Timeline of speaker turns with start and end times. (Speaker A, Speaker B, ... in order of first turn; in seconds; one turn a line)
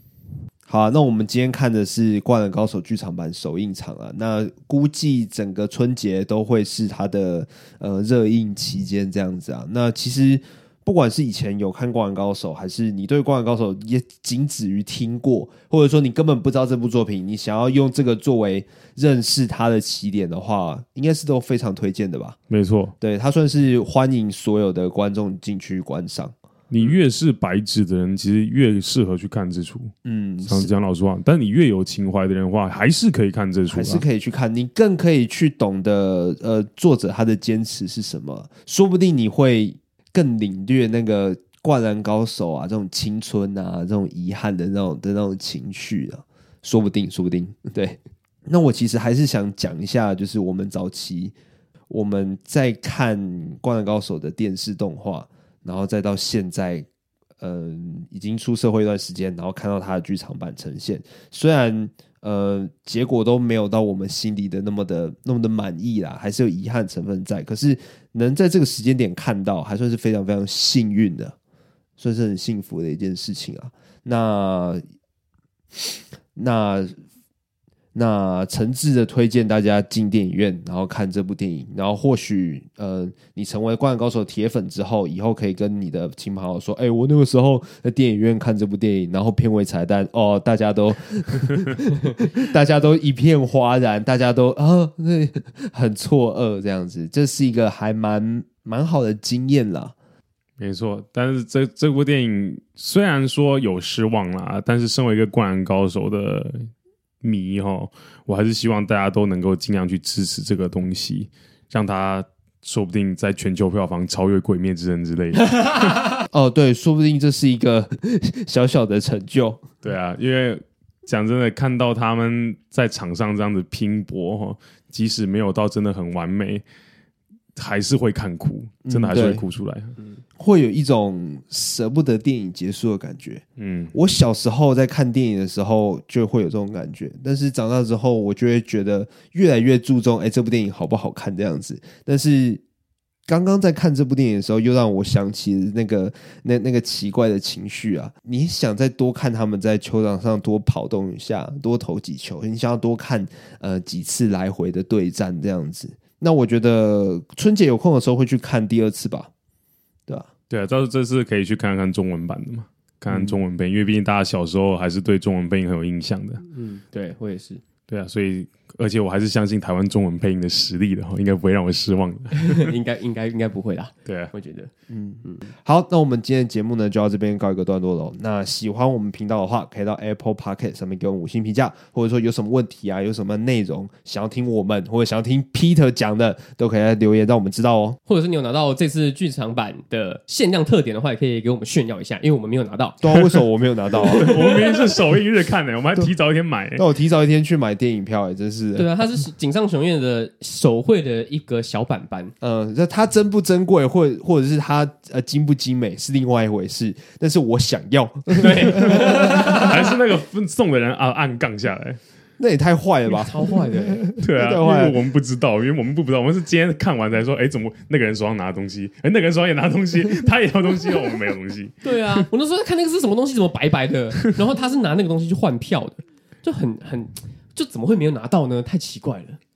Speaker A: 0.7-22.4
Speaker B: 22.5-22.9
Speaker A: 23.0-26.9
Speaker B: 26.7-29.9
Speaker A: 30.1-30.7
Speaker B: 30.4-34.0
Speaker A: 33.7-51.4
Speaker A: 51.9-56.9
Speaker A: 57.4-71.3
Speaker A: 72.0-74.8
Speaker A: 76.3-77.0
Speaker A: 77.9-100.0
Speaker B: 100.6-106.7
Speaker B: 107.2-116.0
Speaker A: 116.3-119.6
Speaker B: 119.8-126.6
Speaker B: 127.6-129.9
Speaker A: 128.9-129.4
Speaker A: 130.4-142.6
Speaker B: 133.6-133.9
Speaker A: 143.3-159.3
Speaker B: 160.5-166.4
Speaker A: 163.1-163.3
Speaker C: 166.5-167.6
Speaker B: 167.9-172.7
Speaker C: 172.3-174.7
Speaker B: 174.1-174.3
Speaker A: 174.9-188.0
Speaker C: 188.1-193.3
Speaker A: 193.0-194.6
Speaker C: 194.0-194.9
Speaker B: 194.1-196.8
Speaker A: 196.8-198.9
Speaker C: 198.8-202.3
Speaker A: 202.4-209.7
Speaker C: 208.3-209.9
Speaker B: 208.9-212.0
Speaker A: 212.4-215.0
Speaker C: 213.1-214.0
Speaker B: 214.2-222.2
Speaker C: 221.8-229.4